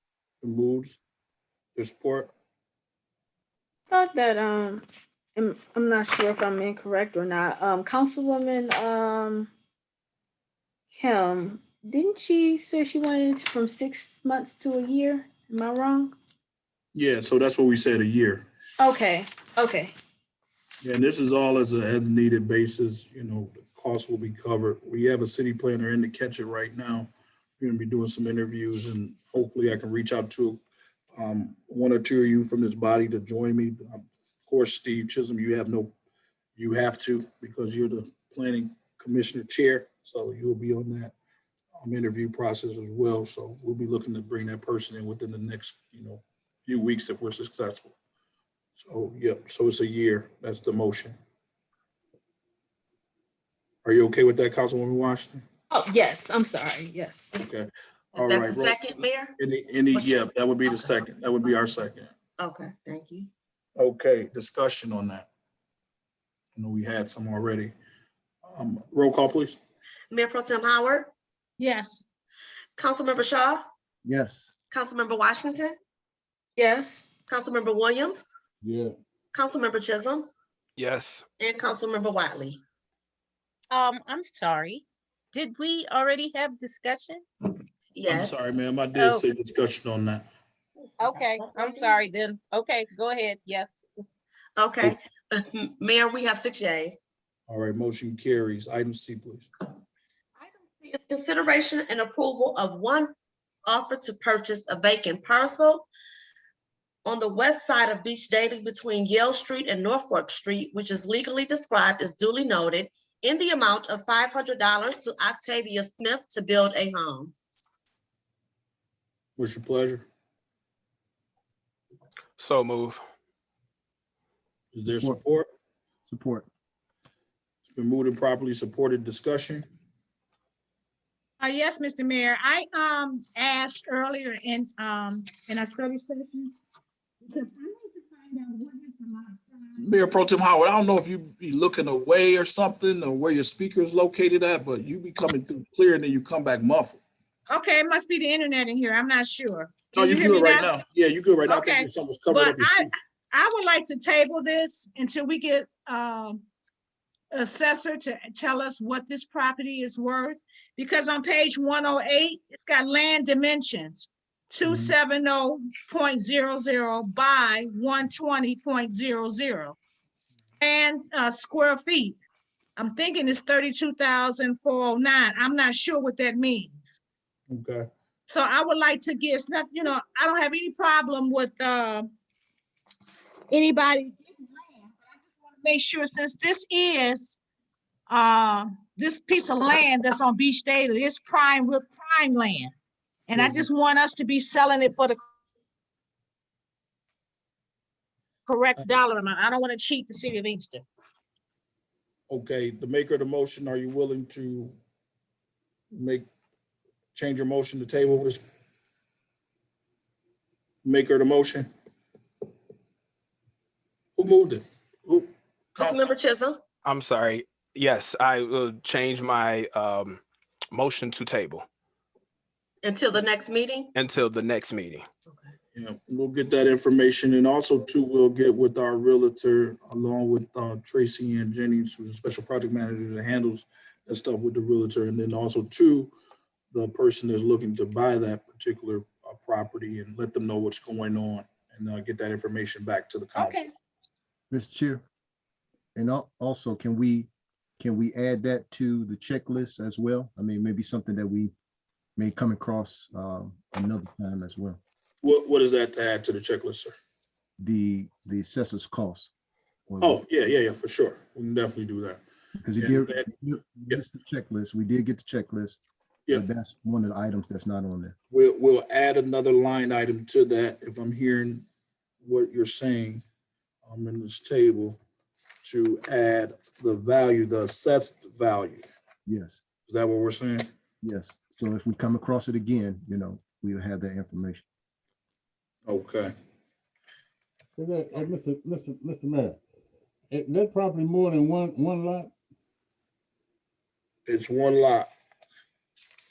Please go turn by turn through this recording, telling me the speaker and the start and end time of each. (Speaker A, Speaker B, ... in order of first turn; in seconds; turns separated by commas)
Speaker A: 0.4-1.0, Speaker A: 1.8-2.3, Speaker B: 3.9-4.8, Speaker B: 5.3-9.5, Speaker B: 10.9-16.1, Speaker A: 16.9-18.4, Speaker B: 18.8-19.9, Speaker A: 20.8-30.6, Speaker A: 31.1-35.9, Speaker A: 36.5-41.1, Speaker A: 41.8-47.9, Speaker A: 48.7-51.1, Speaker A: 53.8-55.4, Speaker B: 55.7-57.4, Speaker A: 57.3-58.8, Speaker C: 58.1-59.4, Speaker A: 59.4-62.1, Speaker C: 59.9-61.6, Speaker C: 62.4-63.3, Speaker A: 63.8-65.3, Speaker A: 66.5-67.7, Speaker A: 68.4-69.6, Speaker C: 70.1-71.1, Speaker D: 71.6-72.0, Speaker C: 72.8-73.6, Speaker E: 74.0-74.5, Speaker C: 74.7-75.7, Speaker B: 76.6-77.0, Speaker C: 77.3-78.2, Speaker F: 78.6-78.9, Speaker C: 79.3-80.3, Speaker G: 80.8-81.2, Speaker C: 81.4-82.6, Speaker H: 83.7-87.2, Speaker C: 87.9-88.3, Speaker A: 88.1-90.2, Speaker H: 89.0-89.2, Speaker H: 91.0-93.8, Speaker C: 91.0-92.0, Speaker C: 94.6-96.9, Speaker A: 97.5-99.5, Speaker C: 100.4-103.1, Speaker C: 103.6-105.9, Speaker C: 107.0-117.3, Speaker A: 119.3-120.0, Speaker G: 122.4-123.0, Speaker A: 124.7-125.5, Speaker E: 126.1-126.5, Speaker A: 127.6-129.7, Speaker D: 131.4-136.6, Speaker D: 137.2-139.8, Speaker A: 139.8-147.0, Speaker D: 147.5-150.7, Speaker A: 149.9-152.9, Speaker D: 151.5-156.4, Speaker D: 157.3-169.8, Speaker A: 164.6-164.9, Speaker D: 170.6-172.2, Speaker D: 172.8-177.0, Speaker A: 177.5-177.8, Speaker D: 178.3-182.1, Speaker D: 183.5-187.4, Speaker D: 188.1-192.7, Speaker D: 193.3-195.2, Speaker A: 193.3-193.7, Speaker D: 198.4-200.8, Speaker A: 202.3-204.7, Speaker A: 205.9-206.2, Speaker A: 207.1-208.4, Speaker A: 210.8-211.7, Speaker A: 214.2-216.0, Speaker C: 215.8-216.6, Speaker G: 216.8-221.7, Speaker C: 222.8-223.9, Speaker G: 223.9-225.1, Speaker A: 225.7-236.1, Speaker A: 236.7-243.7, Speaker E: 244.5-245.0, Speaker E: 245.9-251.5, Speaker E: 252.2-254.8, Speaker A: 255.2-256.9, Speaker E: 257.6-259.3, Speaker E: 259.9-260.2, Speaker A: 260.0-262.2, Speaker E: 262.6-268.1, Speaker A: 262.8-264.0, Speaker A: 268.3-271.6, Speaker A: 272.2-273.2, Speaker A: 273.8-275.0, Speaker A: 275.6-278.8, Speaker E: 279.2-279.6, Speaker A: 279.9-280.7, Speaker E: 281.0-284.6, Speaker A: 285.9-286.3, Speaker F: 287.8-289.6, Speaker F: 290.3-292.3, Speaker A: 294.2-295.1